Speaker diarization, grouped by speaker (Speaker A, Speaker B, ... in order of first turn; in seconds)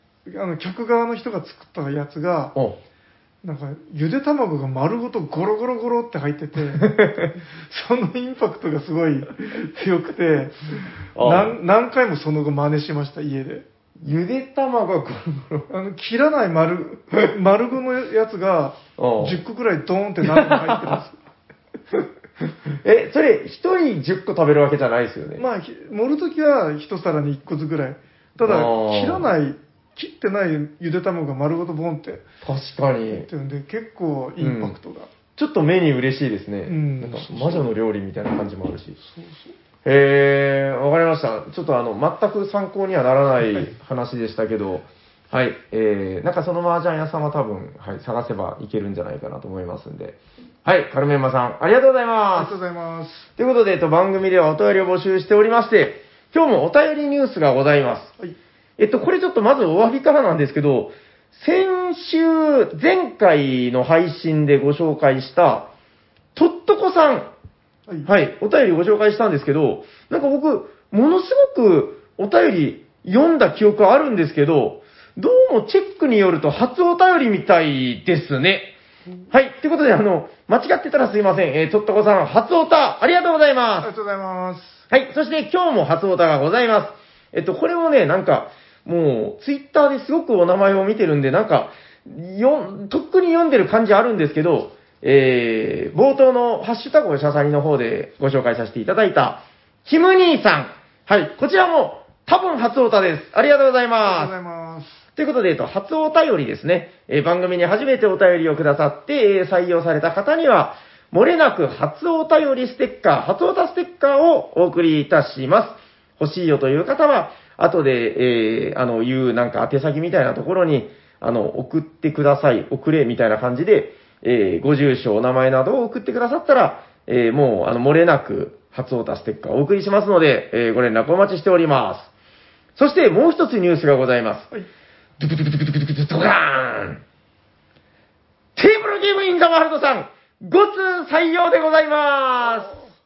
Speaker A: 0.2-2.5, 3.4-13.6, 15.7-21.2, 25.4-32.2, 33.1-35.1, 36.6-37.7, 39.0-39.5, 52.4-53.3, 83.8-84.8, 104.0-105.0
Speaker B: 2.5-2.8, 6.7-7.3, 11.1-11.5, 14.0-15.7, 19.0-19.4, 20.2-21.0, 22.6-25.4, 28.4-29.3, 32.4-33.3, 34.4-34.8, 35.4-39.0, 39.8-52.6, 53.4-58.1, 58.8-65.7, 66.3-67.3, 68.0-78.7, 79.3-83.9, 84.9-104.3, 105.2-132.1, 132.8-134.5, 135.2-137.0, 138.6-142.8